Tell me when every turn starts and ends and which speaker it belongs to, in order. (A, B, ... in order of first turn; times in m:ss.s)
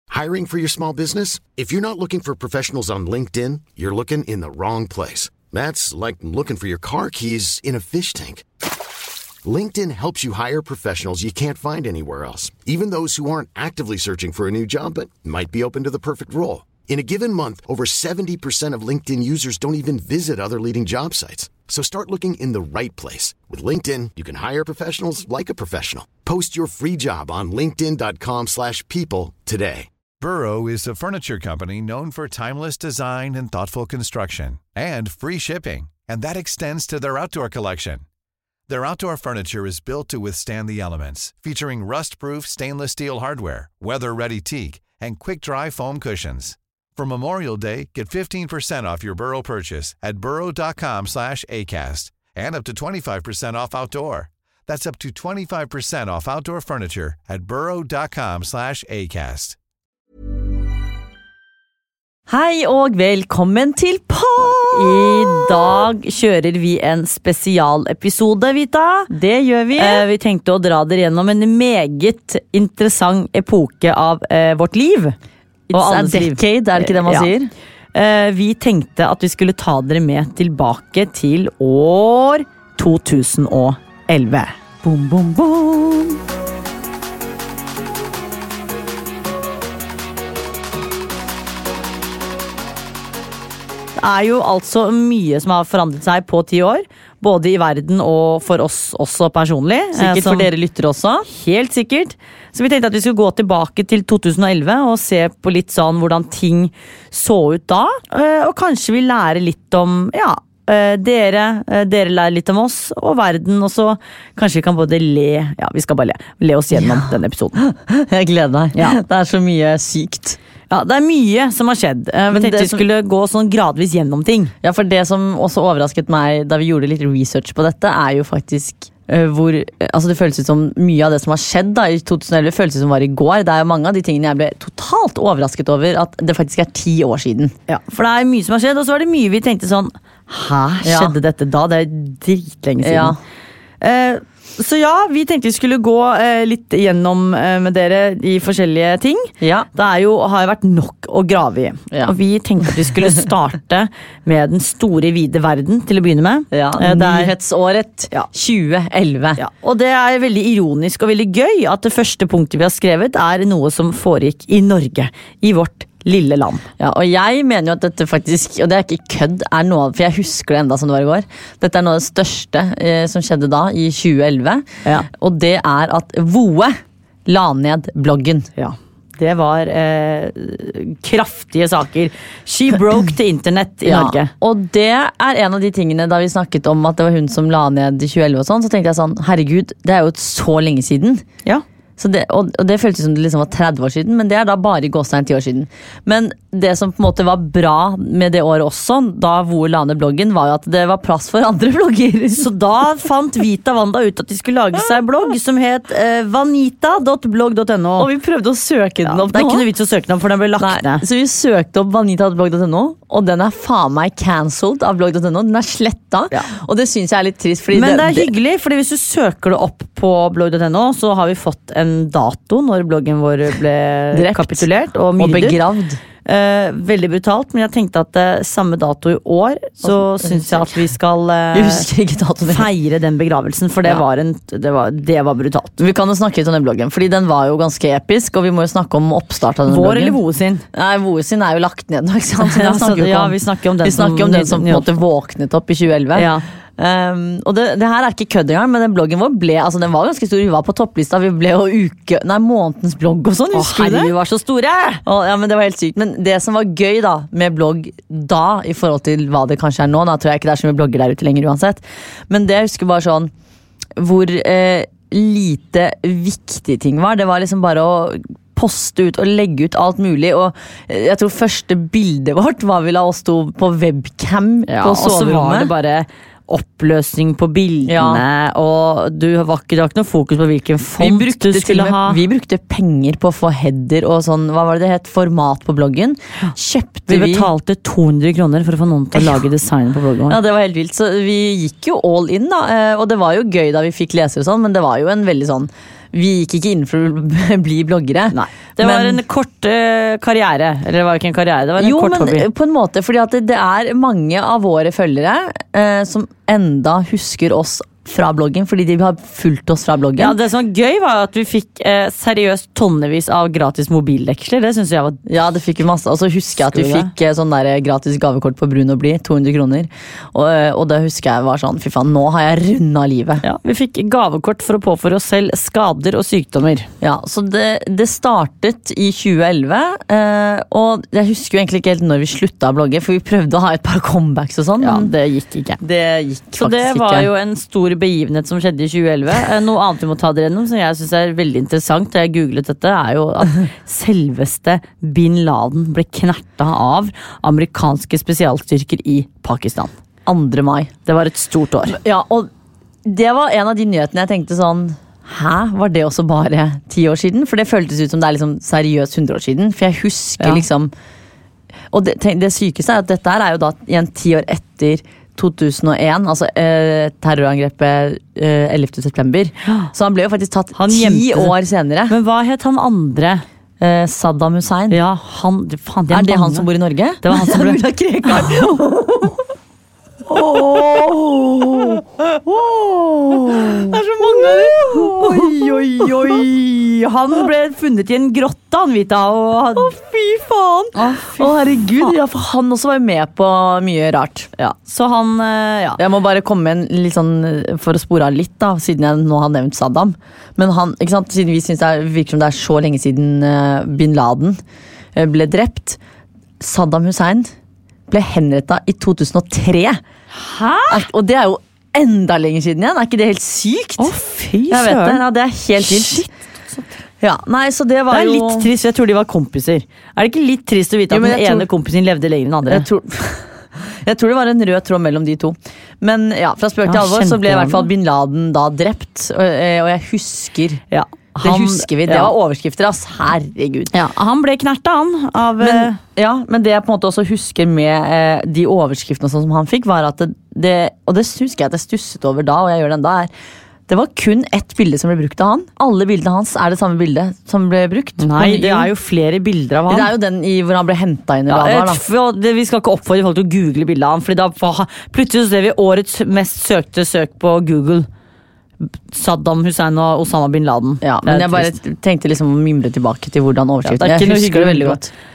0:00.1-0:08.5 A
0:09.4-0:29.9 A
0:30.2-0:38.0 B
0:38.7-0:59.6 B
1:02.3-1:05.8 C
1:04.7-1:09.1 D
1:09.1-1:10.0 C
1:09.8-1:15.2 D
1:15.7-1:17.5 C
1:15.7-1:17.3 D
1:17.9-1:24.5 D
1:24.8-1:26.2 C
1:34.0-1:40.5 D
1:39.9-1:41.3 C
1:41.3-1:57.6 D
1:56.7-2:00.4 C
2:00.7-2:04.5 D
2:02.3-2:02.8 C
2:04.6-2:17.6 C
2:17.7-2:23.2 D
2:20.8-2:21.2 C
2:22.8-2:23.2 C
2:23.8-2:37.3 D
2:29.4-2:29.7 C
2:36.5-2:39.4 C
2:39.4-2:46.6 D
2:46.8-2:58.5 C
2:58.6-3:04.3 D
3:03.8-3:11.2 C
3:12.0-3:22.4 C
3:22.3-3:28.1 D
3:28.0-3:29.7 C
3:29.0-3:31.0 D
3:30.6-3:38.3 C
3:37.7-3:45.6 D
3:44.1-3:44.7 C
3:45.2-3:46.0 C
3:46.3-3:51.9 D
3:49.8-3:50.8 C
3:51.5-3:52.7 C
3:52.5-3:55.9 D
3:55.8-4:00.2 C
3:59.7-4:00.6 D
4:00.7-4:14.1 C
4:02.4-4:04.9 D
4:06.2-4:06.4 D
4:13.5-4:15.0 D
4:15.0-4:23.3 C
4:24.0-4:35.7 C
4:34.7-4:42.2 D
4:37.9-4:38.2 C
4:41.0-4:47.5 C
4:47.1-4:50.4 D
4:49.1-4:49.4 C
4:50.3-4:59.2 C
4:58.3-5:02.5 D
5:01.8-5:10.4 C
5:10.2-5:15.2 D
5:15.3-5:23.4 C
5:16.6-5:17.1 D
5:23.4-5:26.9 D
5:27.0-5:35.1 C
5:34.8-5:35.8 D
5:35.8-5:37.3 C
5:36.6-5:49.9 D
5:50.3-5:50.9 C
5:51.1-5:52.0 D
5:51.9-5:52.5 C
5:53.0-6:00.9 C
6:01.9-6:12.2 C
6:09.6-6:09.9 D
6:10.8-6:11.6 D
6:12.1-6:13.4 D
6:13.8-6:15.0 C
6:14.9-6:16.7 D
6:16.1-6:19.4 C
6:17.2-6:18.8 D
6:20.3-6:26.5 C
6:23.6-6:30.0 D
6:29.8-6:34.5 C
6:31.0-6:32.1 D
6:34.6-6:36.0 D
6:36.0-6:44.6 C
6:45.2-6:46.0 C
6:46.6-6:47.5 C
6:48.1-6:50.0 C
6:50.3-6:51.1 D
6:50.9-6:54.2 C
6:54.0-6:55.2 D
6:54.7-6:56.2 C
6:55.8-6:56.9 D
6:57.2-6:58.7 C
6:58.1-7:02.8 D
7:01.1-7:01.7 C
7:02.7-7:10.8 C
7:06.9-7:07.9 D
7:10.9-7:12.3 D
7:11.4-7:13.9 C
7:13.9-7:16.0 D
7:15.6-7:23.3 C
7:23.9-7:28.9 C
7:28.2-7:30.1 D
7:29.9-7:32.0 C
7:31.5-7:38.1 D
7:39.1-7:41.8 D
7:41.0-7:45.1 C
7:43.8-7:45.0 D